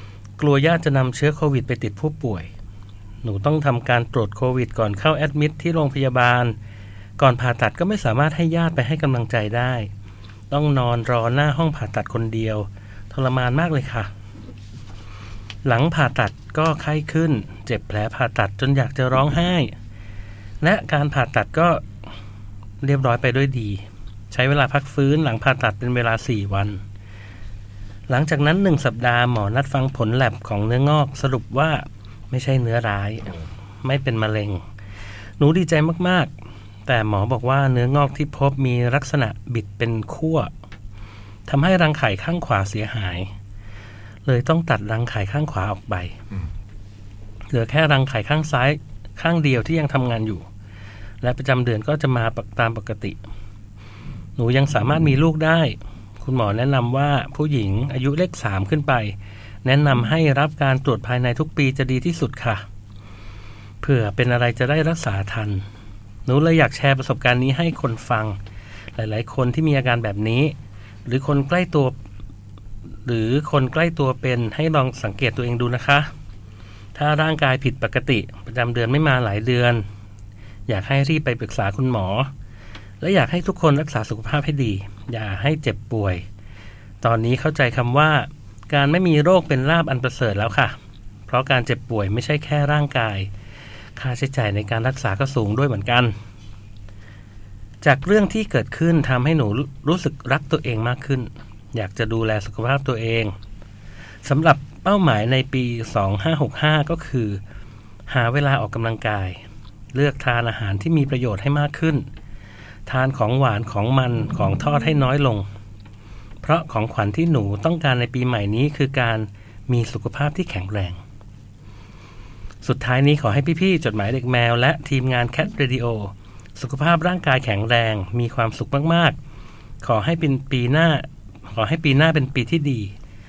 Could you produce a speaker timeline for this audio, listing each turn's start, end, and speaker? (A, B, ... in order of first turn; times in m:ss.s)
0:00.4-0:02.5 A
0:03.2-0:06.6 A
0:07.2-0:09.9 A
0:10.5-0:14.1 A
0:15.6-0:19.8 A
0:20.6-0:21.8 A
0:22.8-0:26.8 A
0:28.1-0:34.6 A
0:35.4-0:36.3 A
0:36.9-0:40.5 A
0:41.5-0:43.3 A
0:44.3-0:46.1 A
0:47.5-0:50.5 A
0:51.2-0:53.2 A
0:54.4-1:02.6 A
1:03.8-1:05.6 A
1:06.3-1:08.4 A
1:09.0-1:10.6 A
1:11.1-1:12.0 A
1:13.0-1:16.1 A
1:17.0-1:19.8 A
1:20.7-1:22.3 A
1:23.0-1:26.2 A
1:27.0-1:30.8 A
1:31.3-1:33.3 A
1:34.0-1:36.2 A
1:37.8-1:43.4 A
1:44.2-1:47.4 A
1:48.1-1:49.4 A
1:49.9-1:52.1 A
1:52.9-1:55.5 A
1:56.4-2:01.0 A
2:02.6-2:09.2 A
2:09.8-2:12.9 A